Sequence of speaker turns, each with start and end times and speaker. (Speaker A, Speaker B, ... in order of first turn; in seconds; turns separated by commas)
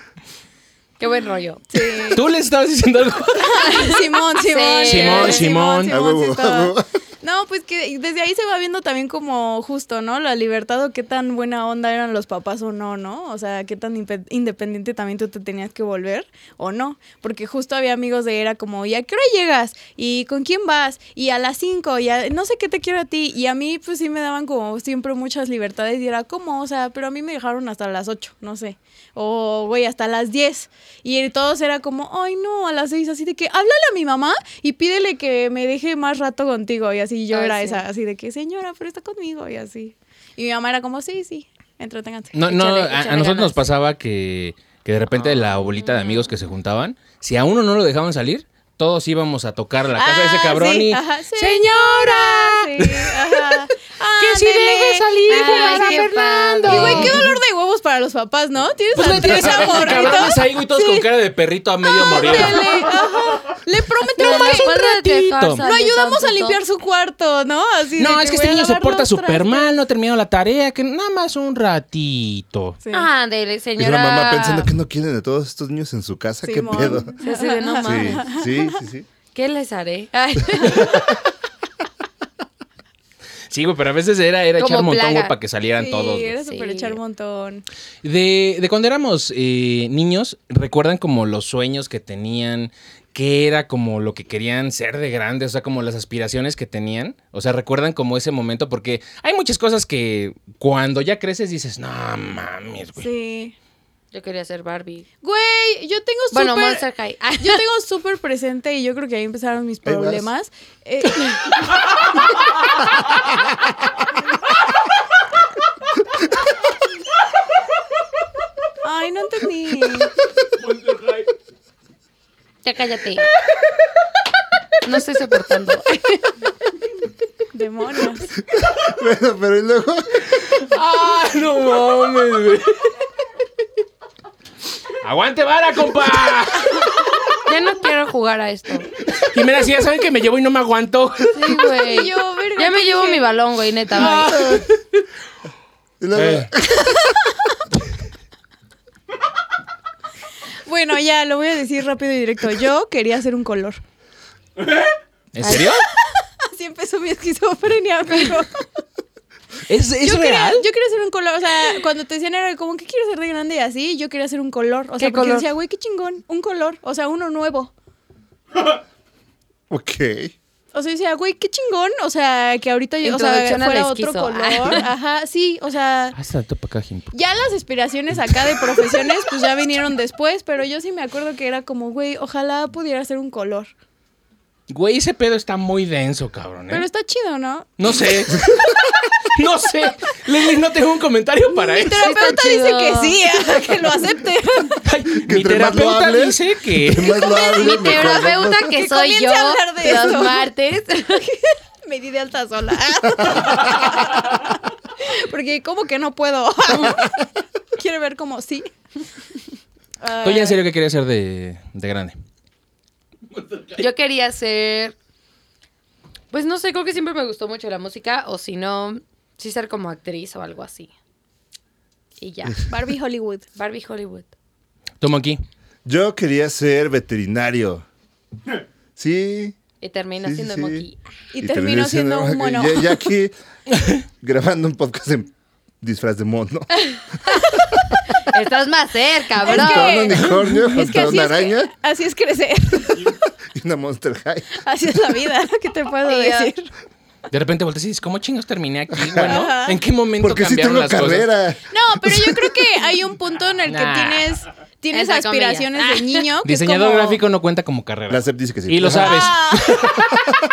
Speaker A: 1.0-2.0, Speaker B: 1.7-2.2, Speaker C: 2.1-3.8, Speaker B: 3.4-43.6, Speaker A: 3.6-5.5, Speaker C: 4.8-6.0, Speaker D: 5.9-6.9, Speaker A: 37.3-37.8, Speaker C: 42.3-53.6, Speaker A: 45.5-46.3, Speaker B: 50.0-61.1, Speaker C: 54.2-57.3, Speaker A: 55.3-57.3, Speaker C: 59.0-62.9, Speaker A: 59.1-60.3, Speaker B: 61.9-64.8, Speaker A: 62.1-62.8, Speaker A: 64.2-66.6, Speaker C: 64.2-65.6, Speaker B: 65.6-69.8, Speaker C: 68.0-72.8, Speaker B: 72.8-73.1, Speaker A: 72.9-74.7, Speaker D: 73.8-77.2, Speaker B: 76.4-78.8, Speaker A: 77.2-78.2, Speaker D: 77.8-79.1, Speaker A: 79.3-81.2, Speaker C: 83.5-86.3, Speaker A: 84.6-85.3, Speaker B: 85.8-87.7, Speaker A: 86.4-87.0, Speaker C: 88.0-103.1, Speaker B: 103.0-103.5, Speaker A: 104.1-105.1, Speaker B: 105.2-106.8, Speaker A: 106.3-107.6, Speaker B: 107.4-111.4, Speaker D: 109.8-110.3, Speaker B: 118.8-120.1, Speaker A: 122.6-123.3, Speaker A: 124.8-126.3, Speaker B: 127.5-128.3, Speaker D: 128.5-130.2, Speaker C: 130.4-132.8, Speaker C: 135.0-136.9, Speaker A: 137.5-138.9, Speaker C: 139.1-141.6, Speaker A: 141.3-144.6, Speaker B: 141.8-143.4, Speaker C: 143.9-144.8, Speaker B: 144.0-144.2, Speaker D: 146.0-147.1, Speaker C: 146.1-146.5, Speaker B: 150.7-153.8, Speaker C: 155.3-155.9, Speaker B: 155.5-155.7, Speaker B: 156.5-158.7, Speaker C: 159.7-160.7, Speaker B: 160.0-167.7, Speaker A: 165.0-165.5, Speaker D: 169.7-170.3, Speaker B: 170.7-176.2, Speaker A: 173.0-174.8, Speaker C: 176.2-177.1, Speaker B: 177.1-183.7, Speaker C: 184.7-186.9, Speaker B: 186.7-187.7, Speaker C: 187.8-192.1, Speaker D: 188.3-188.7, Speaker B: 191.5-194.8, Speaker A: 192.0-193.6, Speaker C: 194.8-197.2, Speaker D: 195.2-198.8, Speaker B: 197.1-200.5, Speaker A: 197.6-201.3, Speaker B: 201.5-207.2, Speaker B: 207.8-208.7, Speaker B: 210.0-210.6, Speaker C: 210.2-212.2, Speaker A: 213.7-214.9, Speaker A: 216.3-220.9, Speaker A: 222.2-222.7, Speaker B: 222.7-223.5, Speaker A: 223.6-224.3, Speaker C: 225.0-225.4, Speaker D: 225.8-227.8, Speaker D: 229.0-229.6, Speaker A: 229.8-231.0, Speaker D: 230.2-230.8, Speaker B: 231.3-233.0, Speaker D: 231.4-233.3, Speaker D: 234.2-236.7, Speaker A: 237.0-237.6, Speaker D: 237.5-238.0, Speaker A: 238.1-240.2, Speaker B: 239.4-243.2, Speaker D: 239.5-241.7, Speaker D: 243.5-244.6, Speaker B: 244.6-246.7, Speaker A: 246.1-246.5, Speaker C: 247.3-251.3, Speaker D: 248.9-249.4, Speaker B: 249.2-249.8, Speaker D: 250.2-252.6, Speaker B: 251.7-257.2, Speaker C: 253.7-254.4, Speaker A: 254.9-256.3, Speaker C: 256.4-260.2, Speaker D: 258.1-259.4, Speaker B: 259.0-260.0